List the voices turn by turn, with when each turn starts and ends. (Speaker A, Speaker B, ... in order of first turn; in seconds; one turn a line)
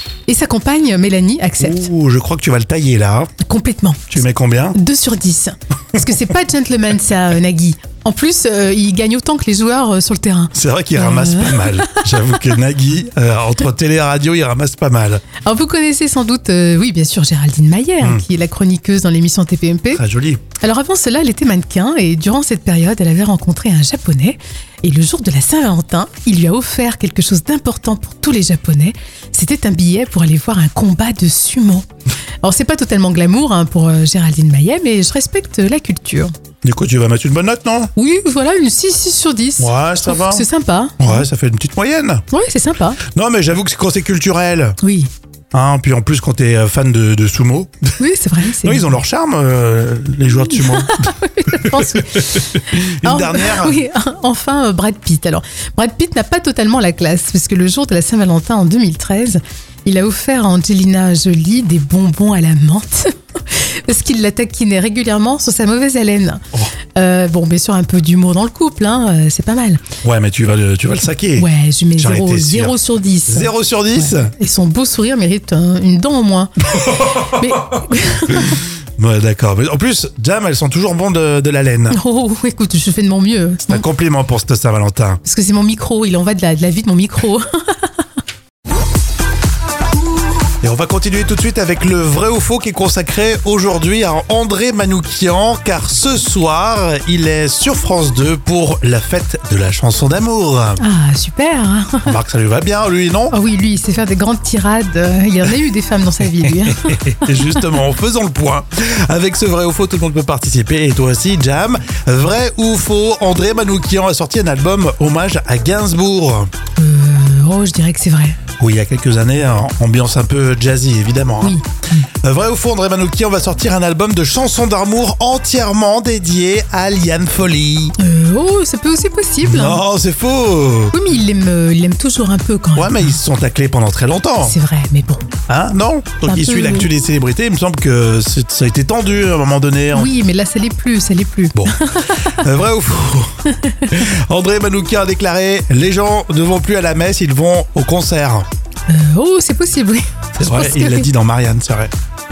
Speaker A: 0.3-1.9
Speaker B: 1.6-3.3
Speaker A: 3.4-4.2
Speaker B: 4.1-4.8
Speaker A: 4.7-12.3
Speaker B: 10.6-15.2
Speaker A: 15.4-20.0
Speaker B: 19.9-20.4
Speaker A: 20.6-31.9
Speaker A: 32.4-36.3
Speaker B: 36.6-37.9
Speaker A: 38.0-41.3
Speaker B: 39.6-40.5
Speaker B: 41.0-42.2
Speaker A: 42.3-43.0
Speaker B: 43.1-44.8
Speaker A: 44.8-45.1
Speaker B: 45.5-47.9
Speaker A: 48.0-49.0
Speaker B: 48.6-51.0
Speaker A: 50.5-66.4
Speaker B: 51.5-53.8
Speaker A: 67.0-69.8
Speaker B: 70.0-74.3
Speaker A: 71.4-78.6
Speaker B: 77.0-77.8
Speaker B: 78.3-82.0
Speaker A: 81.9-83.8
Speaker B: 83.7-85.2
Speaker A: 85.2-87.9
Speaker B: 90.6-100.8
Speaker A: 100.8-102.1
Speaker B: 102.0-103.3
Speaker A: 103.3-107.7
Speaker B: 106.4-116.5
Speaker A: 116.8-118.4
Speaker B: 118.6-121.6
Speaker A: 121.4-122.1
Speaker B: 122.2-128.0
Speaker A: 128.0-129.8
Speaker B: 129.4-130.9
Speaker A: 130.9-133.2
Speaker B: 132.8-134.5
Speaker A: 134.4-135.3
Speaker B: 135.5-140.1
Speaker A: 136.2-136.9
Speaker A: 139.9-142.4
Speaker B: 142.3-143.3
Speaker A: 143.6-144.0
Speaker B: 143.9-148.5
Speaker A: 148.9-151.1
Speaker B: 150.4-151.9